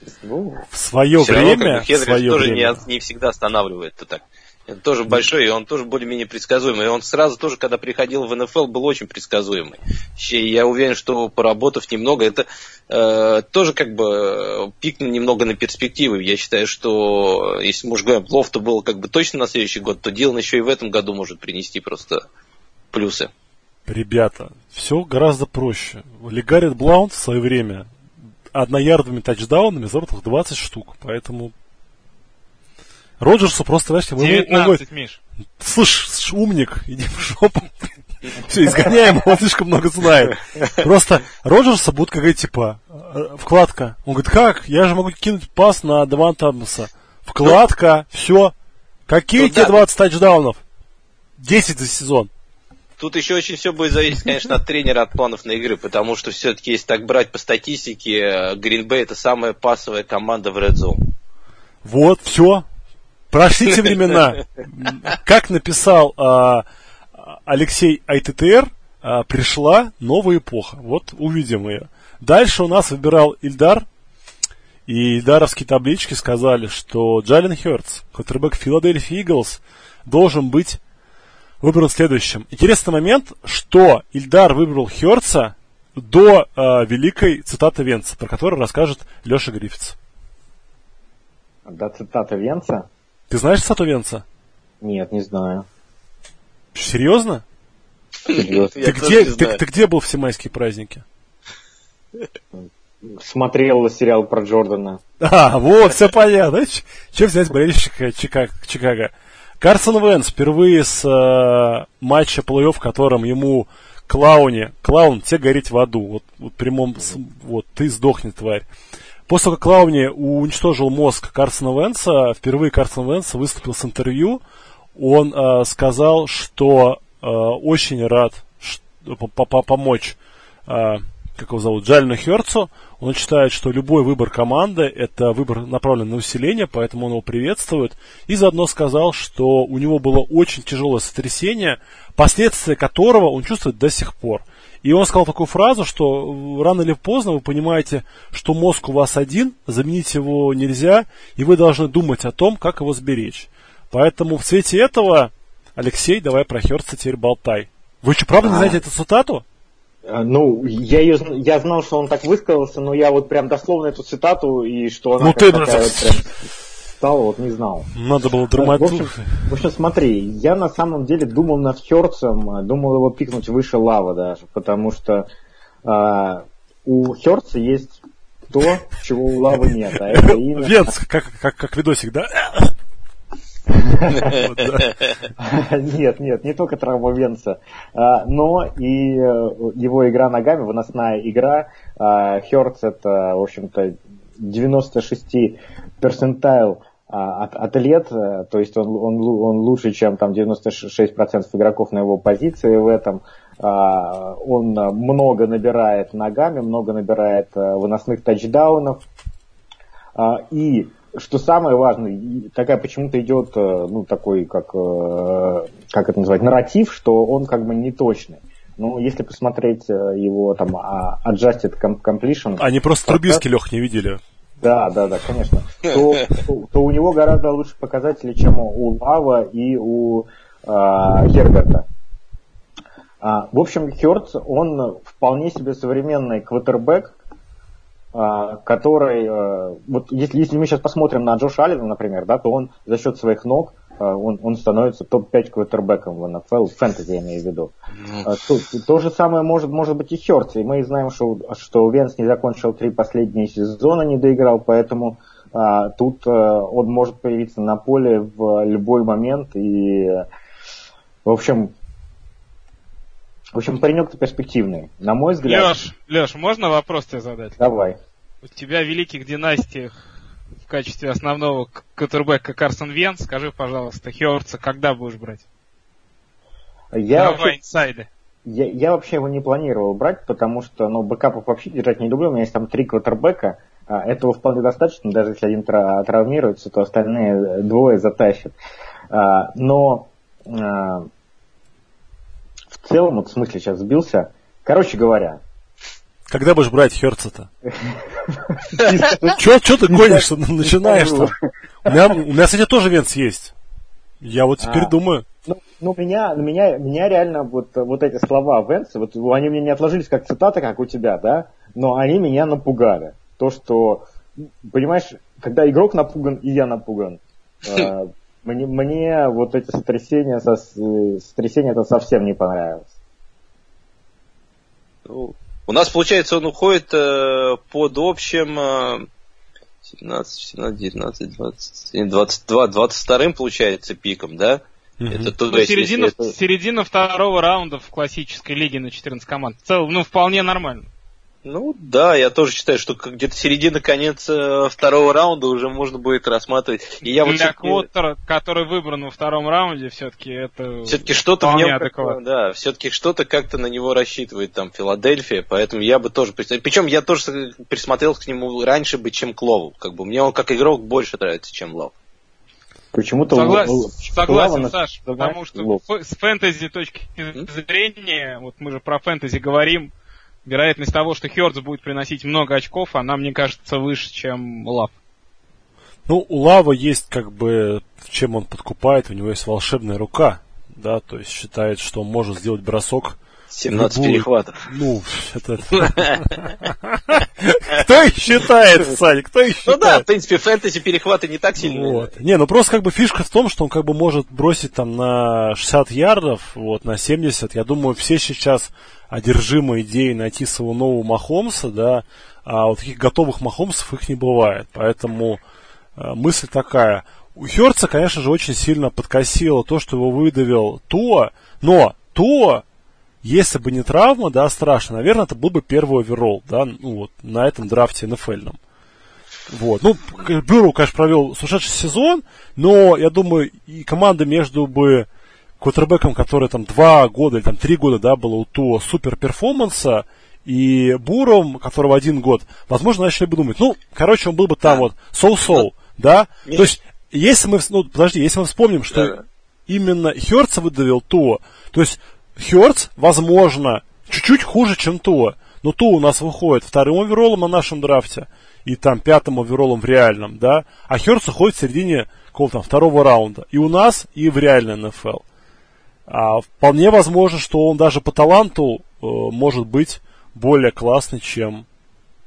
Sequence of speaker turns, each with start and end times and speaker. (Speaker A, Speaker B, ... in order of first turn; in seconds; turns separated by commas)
Speaker A: 0.2-0.6, Speaker B: 0.7-2.8, Speaker A: 1.2-22.2, Speaker A: 22.9-23.3, Speaker B: 23.9-27.9, Speaker B: 28.5-31.5, Speaker B: 33.2-34.8, Speaker C: 34.2-35.2, Speaker B: 35.6-48.5, Speaker B: 49.1-50.6, Speaker A: 49.4-49.8, Speaker B: 51.4-52.3, Speaker A: 53.0-61.0, Speaker B: 61.8-62.6, Speaker B: 63.3-66.7, Speaker B: 67.2-73.9, Speaker B: 74.9-80.8, Speaker B: 81.6-90.0, Speaker D: 91.7-92.9, Speaker B: 93.3-94.2, Speaker D: 94.8-95.7, Speaker B: 96.7-97.4, Speaker A: 98.3-99.6, Speaker D: 98.3-98.8, Speaker B: 98.8-101.0, Speaker D: 102.6-105.0, Speaker B: 105.2-118.7, Speaker B: 119.3-124.4, Speaker B: 125.0-159.4, Speaker D: 158.4-158.8, Speaker D: 160.1-166.4, Speaker B: 165.2-166.2, Speaker D: 167.0-167.9, Speaker B: 167.9-169.5, Speaker D: 168.6-175.3, Speaker D: 175.8-180.8, Speaker B: 180.0-182.8, Speaker D: 184.0-184.4, Speaker B: 184.1-184.9, Speaker D: 185.4-209.0, Speaker D: 210.2-223.4, Speaker B: 222.6-224.2, Speaker D: 224.6-231.9, Speaker D: 233.2-237.2, Speaker D: 238.1-247.7, Speaker A: 248.0-248.3, Speaker D: 248.2-260.3, Speaker D: 261.3-261.7, Speaker D: 263.6-265.7, Speaker C: 265.4-267.6, Speaker D: 267.6-268.0, Speaker C: 268.4-270.0, Speaker C: 270.6-275.4, Speaker D: 276.9-277.6, Speaker C: 277.1-278.1, Speaker D: 278.5-288.5, Speaker D: 289.1-291.1, Speaker D: 292.8-295.4, Speaker B: 296.3-297.5, Speaker D: 297.8-301.3, Speaker B: 299.3-301.3, Speaker B: 301.9-303.5, Speaker B: 304.2-305.2, Speaker D: 304.6-304.9, Speaker D: 305.5-314.1, Speaker D: 314.6-322.9, Speaker A: 325.1-329.1, Speaker A: 329.9-336.4, Speaker B: 335.0-335.3, Speaker C: 335.5-340.9, Speaker A: 341.4-347.9, Speaker C: 347.1-352.2, Speaker A: 350.9-361.9, Speaker D: 362.9-365.8, Speaker C: 363.3-369.9, Speaker C: 370.4-374.9, Speaker B: 376.1-383.2, Speaker A: 383.5-384.6, Speaker B: 383.7-390.1, Speaker A: 385.8-386.2, Speaker A: 389.7-392.1, Speaker B: 391.6-405.4, Speaker B: 406.0-412.6, Speaker B: 413.2-418.6, Speaker B: 419.5-425.1, Speaker B: 425.6-455.2, Speaker A: 436.5-436.8, Speaker A: 438.9-439.2, Speaker B: 456.1-461.7